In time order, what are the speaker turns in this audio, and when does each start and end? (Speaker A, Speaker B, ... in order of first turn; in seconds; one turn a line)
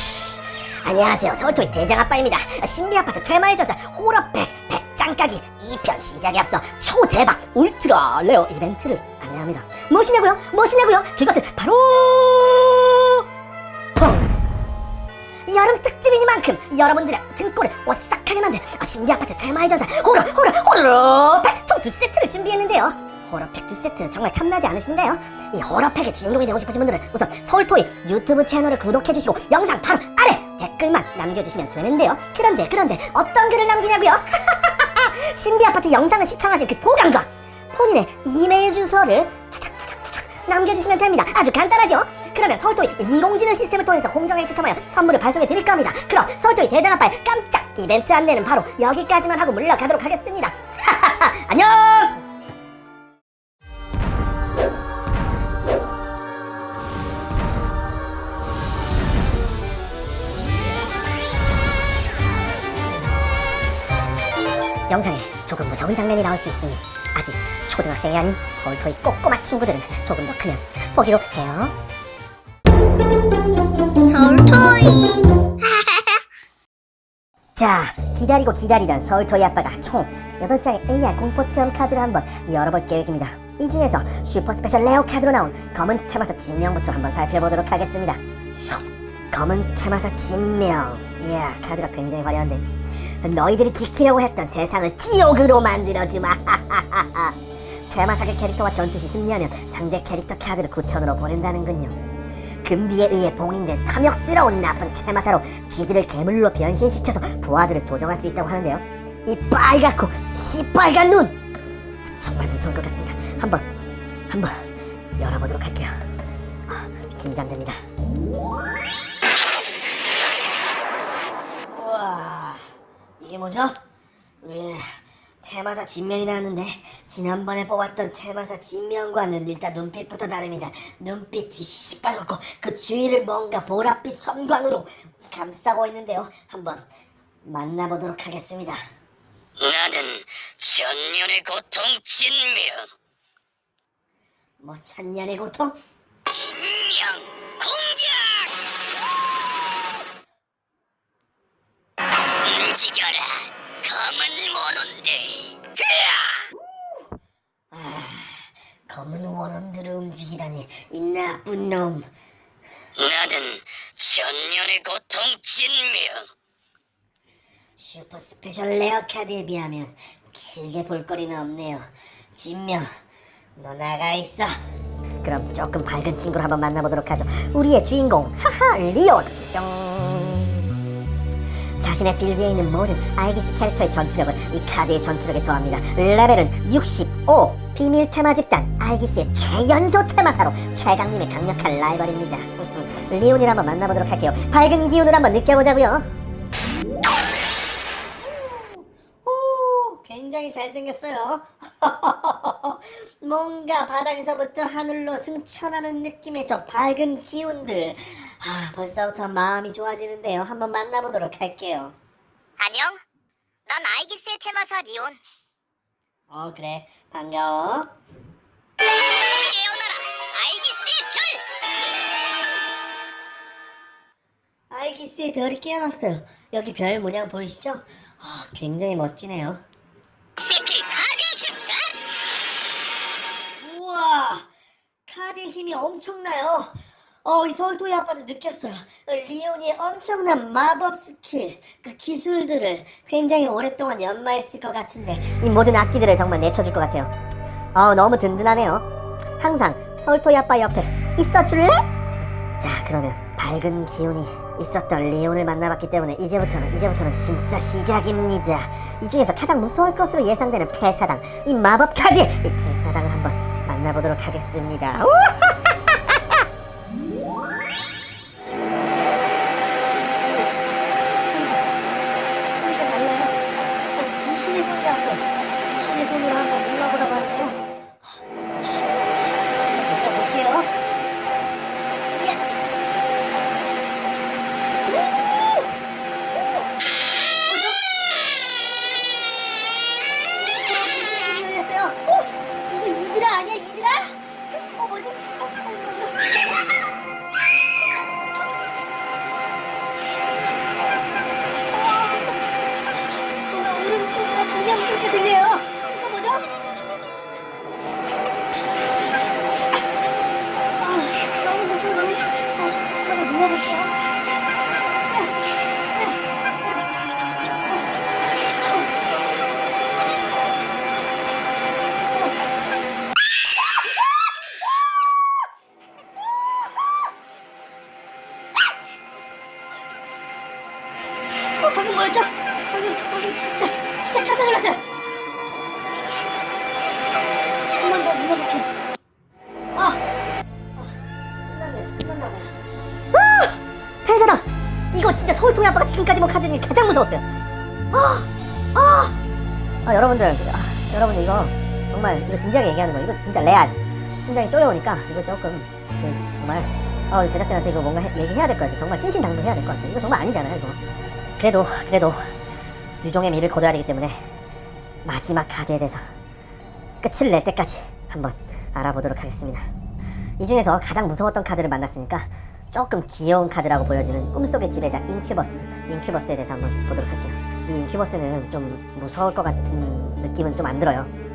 Speaker A: 0.8-13.2
Speaker A: 13.9-14.3
Speaker A: 15.5-52.2
Speaker A: 64.9-71.7
Speaker B: 74.0-76.2
Speaker A: 77.5-92.7
Speaker A: 93.2-102.0
Speaker A: 102.6-111.3
Speaker A: 112.2-113.6
Speaker A: 114.3-114.6
Speaker A: 115.2-115.9
Speaker A: 116.7-117.8
Speaker A: 121.7-122.7
Speaker A: 123.2-123.8
Speaker A: 124.4-136.8
Speaker A: 137.4-138.8
Speaker C: 139.6-142.9
Speaker A: 144.6-145.8
Speaker B: 146.3-147.1
Speaker C: 146.4-148.5
Speaker B: 147.6-147.8
Speaker C: 152.3-156.4
Speaker A: 156.5-157.1
Speaker A: 157.7-162.1
Speaker C: 162.9-166.3
Speaker A: 167.8-172.9
Speaker A: 173.6-174.5
Speaker A: 175.2-180.7
Speaker A: 181.8-196.1
Speaker A: 198.1-211.9
Speaker B: 212.6-213.0
Speaker B: 213.7-215.2
Speaker A: 216.3-217.9
Speaker B: 219.2-221.4
Speaker A: 224.7-229.6
Speaker B: 230.4-231.9
Speaker A: 233.6-234.5
Speaker A: 235.1-236.7
Speaker A: 237.2-247.1
Speaker A: 247.7-248.9
Speaker A: 249.4-251.8
Speaker A: 252.6-266.4
Speaker A: 270.1-270.7
Speaker A: 271.3-271.6
Speaker A: 272.5-273.4
Speaker A: 273.9-280.7
Speaker A: 282.1-282.5
Speaker A: 284.8-285.7
Speaker A: 286.4-286.7
Speaker A: 287.4-288.0
Speaker A: 290.3-296.5
Speaker A: 301.8-302.3
Speaker A: 303.5-306.4
Speaker A: 310.8-313.9
Speaker A: 331.6-334.8
Speaker A: 337.7-338.7
Speaker A: 339.7-340.0
Speaker A: 340.8-342.5
Speaker A: 343.1-347.2
Speaker A: 347.9-349.1
Speaker A: 349.9-360.8
Speaker A: 361.4-362.3
Speaker A: 363.0-364.3
Speaker A: 365.0-366.0
Speaker A: 367.0-369.7
Speaker A: 370.4-381.1